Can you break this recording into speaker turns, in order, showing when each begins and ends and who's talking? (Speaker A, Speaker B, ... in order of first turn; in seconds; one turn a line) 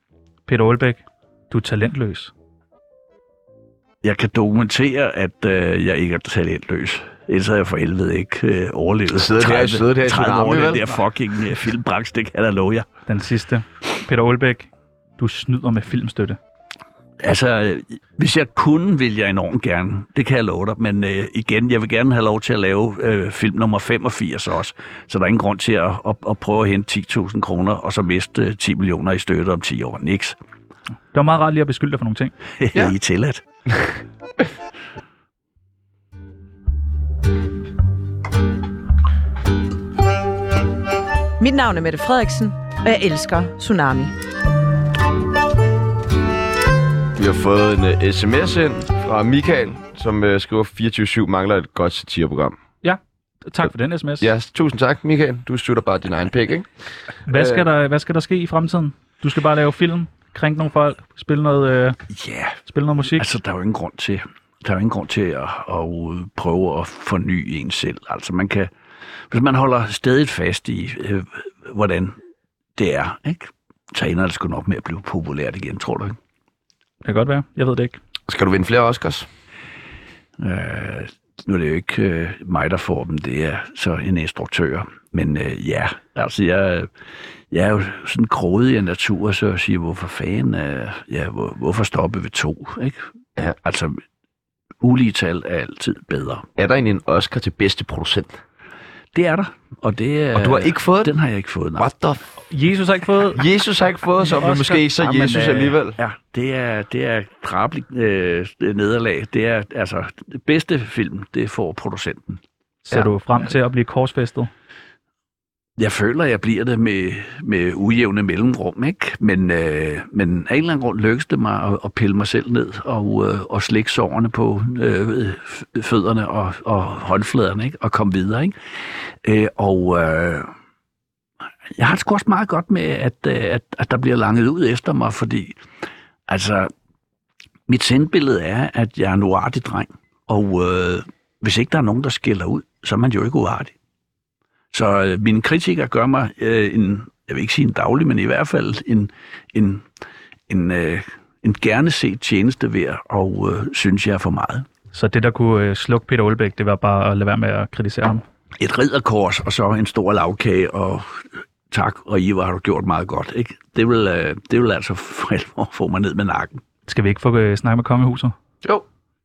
Speaker A: 0.5-2.3
Speaker B: 4.0-12.8
Speaker C: 9.1-10.9
Speaker A: 13.1-16.4
Speaker B: 17.2-30.3
Speaker A: 31.1-32.3
Speaker B: 32.6-33.4
Speaker D: 41.4-44.1
Speaker C: 47.1-52.6
Speaker A: 52.8-54.3
Speaker C: 54.2-56.7
Speaker A: 57.3-62.0
Speaker C: 57.3-57.6
Speaker B: 62.1-62.6
Speaker A: 62.7-63.3
Speaker B: 63.1-68.7
Speaker B: 69.3-72.2
Speaker B: 72.8-76.2
Speaker A: 77.0-78.0
Speaker C: 78.3-79.3
Speaker B: 80.4-86.9
Speaker B: 87.5-93.0
Speaker B: 93.6-94.0
Speaker B: 94.8-96.5
Speaker C: 96.6-98.4
Speaker B: 99.1-101.9
Speaker C: 100.3-101.1
Speaker C: 101.8-102.2
Speaker A: 102.5-103.4
Speaker C: 103.3-106.0
Speaker A: 104.2-104.8
Speaker B: 105.0-112.4
Speaker A: 112.8-114.5
Speaker B: 115.8-128.5
Speaker B: 129.2-130.5
Speaker B: 131.8-135.6
Speaker B: 136.3-136.7
Speaker B: 137.7-143.7
Speaker B: 144.7-149.8
Speaker B: 150.5-154.7
Speaker A: 154.9-158.2
Speaker B: 158.6-166.6
Speaker A: 166.9-168.3